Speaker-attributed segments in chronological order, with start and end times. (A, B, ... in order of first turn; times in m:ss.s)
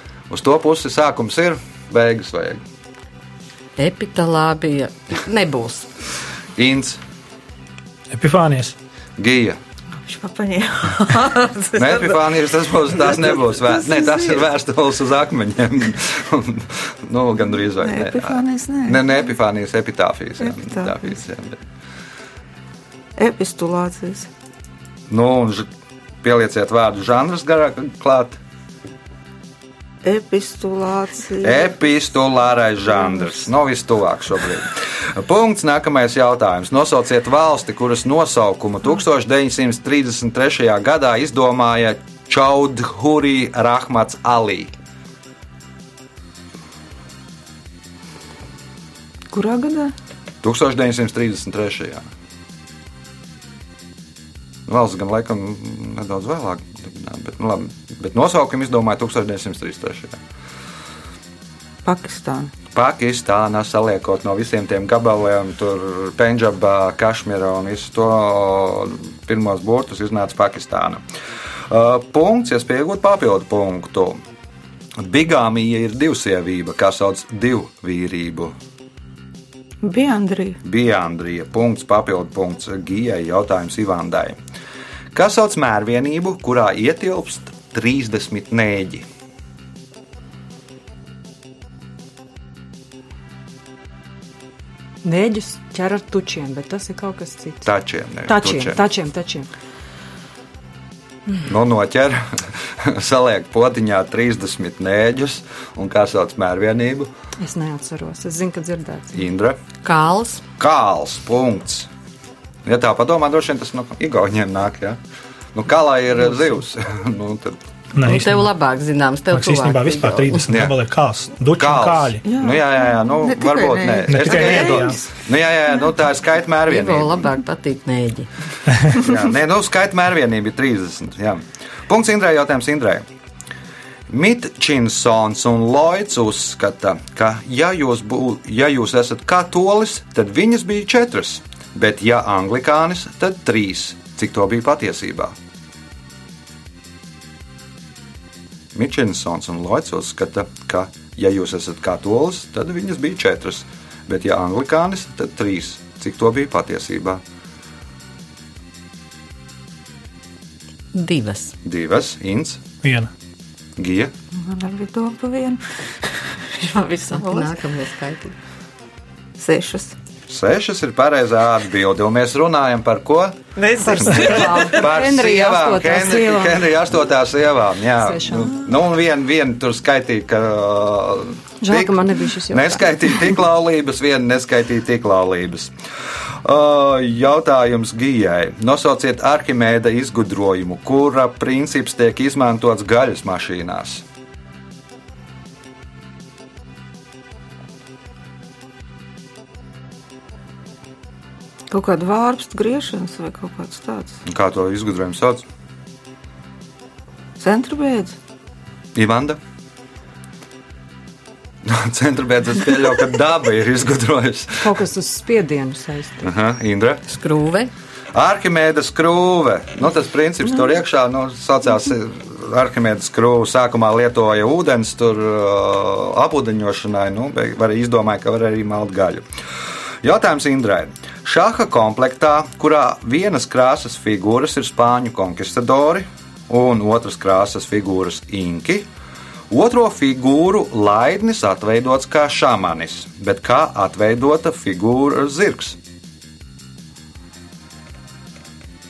0:00.3-0:02.6 A
0:03.8-0:05.9 B
0:06.6-0:07.0 A
0:08.1-0:08.8 C
0:09.2-0:09.6 A
0:09.9-0:12.2 D
0:11.7-0:21.6 A
0:13.0-0:14.5 D
0:17.8-0:19.0 D
0:20.4-0:21.0 D
0:23.2-0:24.3 D
0:25.1-0:25.7 A
0:26.2-0:28.4 A
0:30.0-0:31.8 D
0:31.4-0:44.7 A
0:49.3-0:49.9 D
0:50.4-0:52.1 A
0:54.7-1:00.2 A
1:01.8-1:02.5 D
1:02.7-1:11.0 A
1:11.7-1:14.2 A
1:15.0-1:18.5 A
1:19.8-1:20.6 D
1:20.6-1:24.4 A
1:25.1-1:29.0 A
1:35.0-1:37.7 E
1:37.6-1:38.8 A
1:38.3-1:39.5 E
1:41.4-1:47.1 A
1:47.4-1:49.3 E
1:49.1-1:49.6 A
1:49.8-1:50.4 B
1:50.6-1:51.9 A
1:52.6-1:55.0 A
1:55.5-1:57.6 A
1:57.9-1:58.5 C
1:58.0-2:00.5 B
1:59.3-2:02.2 C
2:00.0-2:00.8 A
2:01.6-2:07.4 A
2:02.2-2:05.1 D
2:04.1-2:05.0 C
2:06.7-2:08.3 B
2:08.9-2:13.0 A
2:14.1-2:25.4 A
2:28.7-2:37.2 A
2:40.9-2:41.5 B
2:41.6-2:42.6 A
2:42.8-2:43.1 C
2:43.8-2:44.1 A
2:44.3-2:47.6 D
2:47.1-2:48.4 B
2:49.4-2:49.9 D
2:50.3-3:05.7 A
2:53.6-2:54.8 D
2:53.8-2:56.6 E
2:58.0-2:58.6 E
3:01.6-3:03.3 E
3:06.4-3:14.0 A
3:21.7-3:24.2 D
3:24.2-3:25.4 A
3:27.4-3:28.2 D
3:28.9-3:29.4 A
3:31.6-3:34.8 A
3:34.6-3:36.3 E
3:36.2-3:37.0 A
3:37.1-3:37.7 B
3:38.1-3:49.2 A
3:50.0-3:58.9 A
3:59.5-4:05.8 A